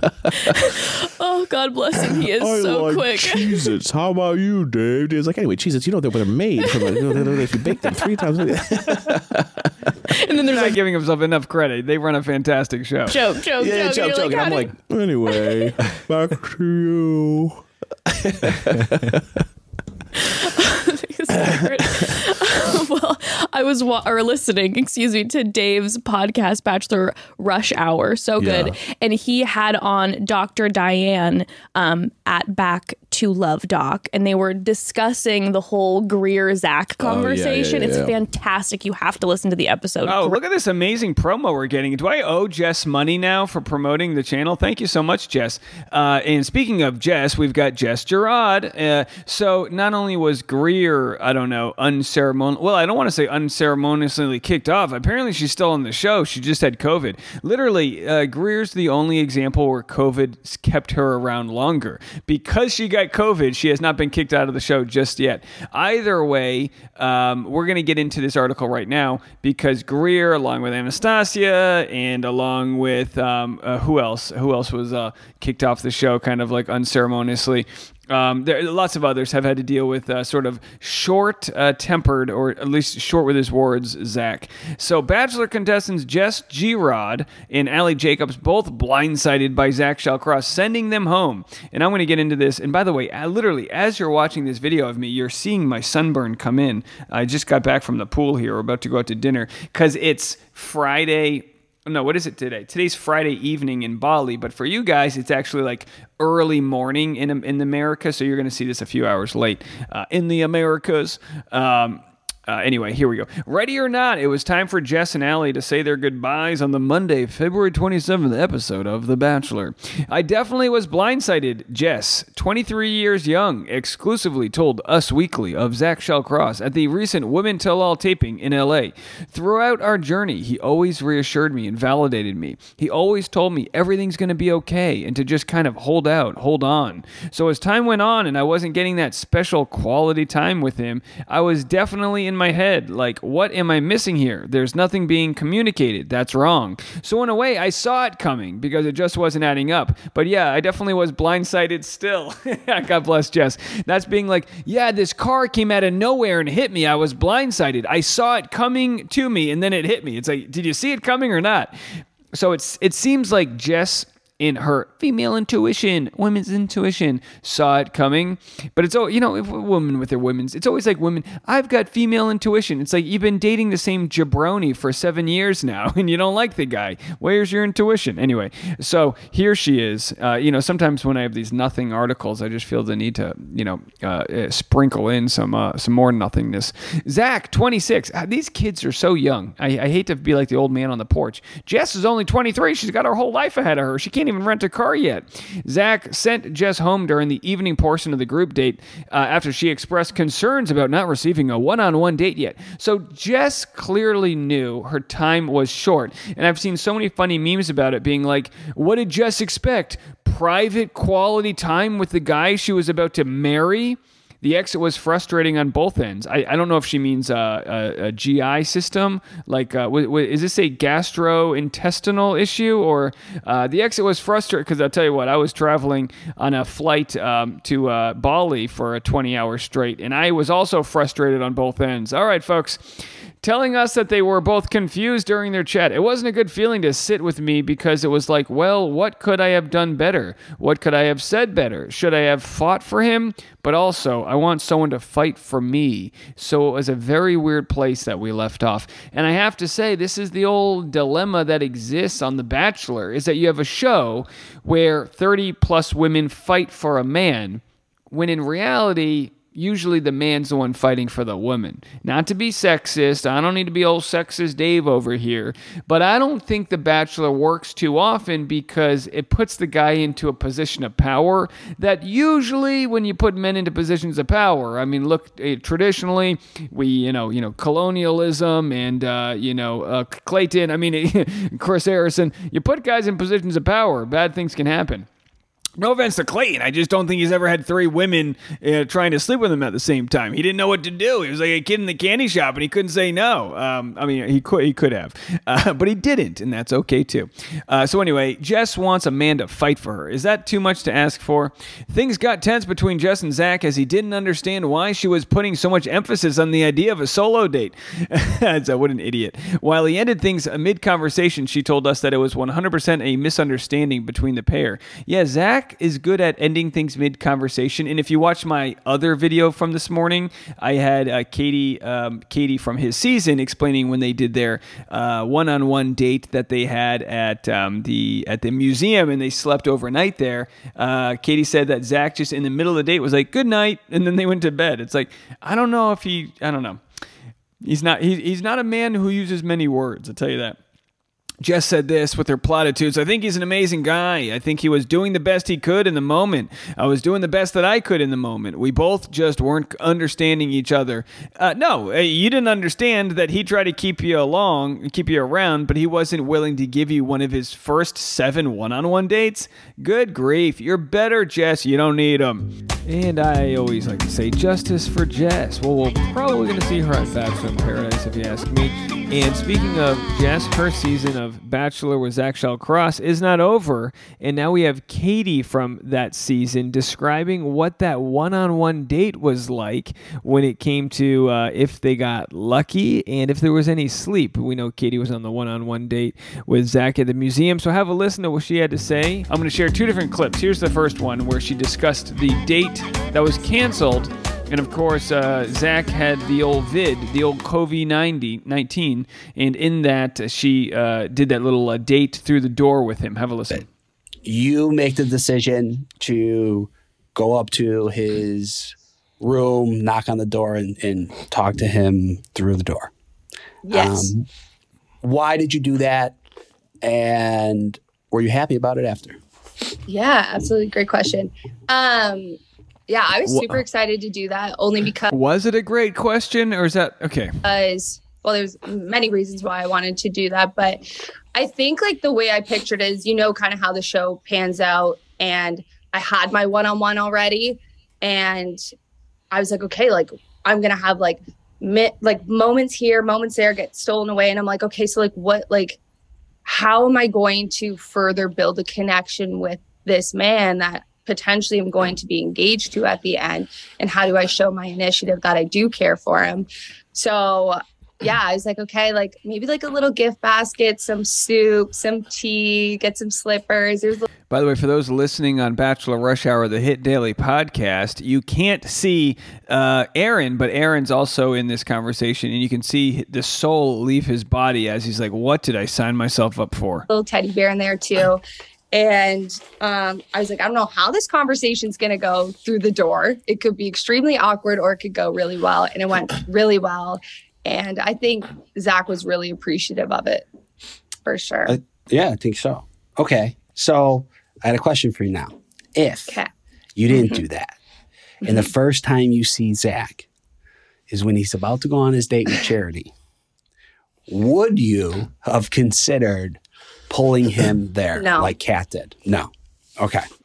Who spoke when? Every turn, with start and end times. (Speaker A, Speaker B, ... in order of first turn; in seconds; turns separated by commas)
Speaker A: 0.6-3.7, Speaker B: 2.1-9.9, Speaker A: 6.6-8.9, Speaker A: 10.1-10.8, Speaker C: 10.5-13.2, Speaker A: 13.1-14.7, Speaker B: 13.6-19.4, Speaker A: 15.2-15.9, Speaker A: 20.5-40.4, Speaker B: 21.4-22.1, Speaker B: 28.4-28.7, Speaker B: 37.0-38.1, Speaker C: 40.0-161.7, Speaker C: 162.3-285.1, Speaker C: 285.8-336.8, Speaker C: 337.6-340.6, Speaker C: 341.4-403.7, Speaker D: 404.2-412.9, Speaker E: 413.6-414.1, Speaker D: 413.7-414.3, Speaker D: 415.0-416.2, Speaker D: 416.8-419.2, Speaker E: 419.9-425.1, Speaker C: 423.2-423.6, Speaker C: 425.1-427.3, Speaker E: 427.4-430.8, Speaker E: 431.3-438.6, Speaker E: 439.3-445.8, Speaker E: 446.4-464.1, Speaker C: 464.3-476.9, Speaker E: 476.9-490.2, Speaker E: 491.1-491.6, Speaker D: 491.4-496.2, Speaker D: 496.7-497.5, Speaker D: 498.2-500.1, Speaker D: 500.9-502.9, Speaker D: 504.1-510.0, Speaker E: 507.9-508.3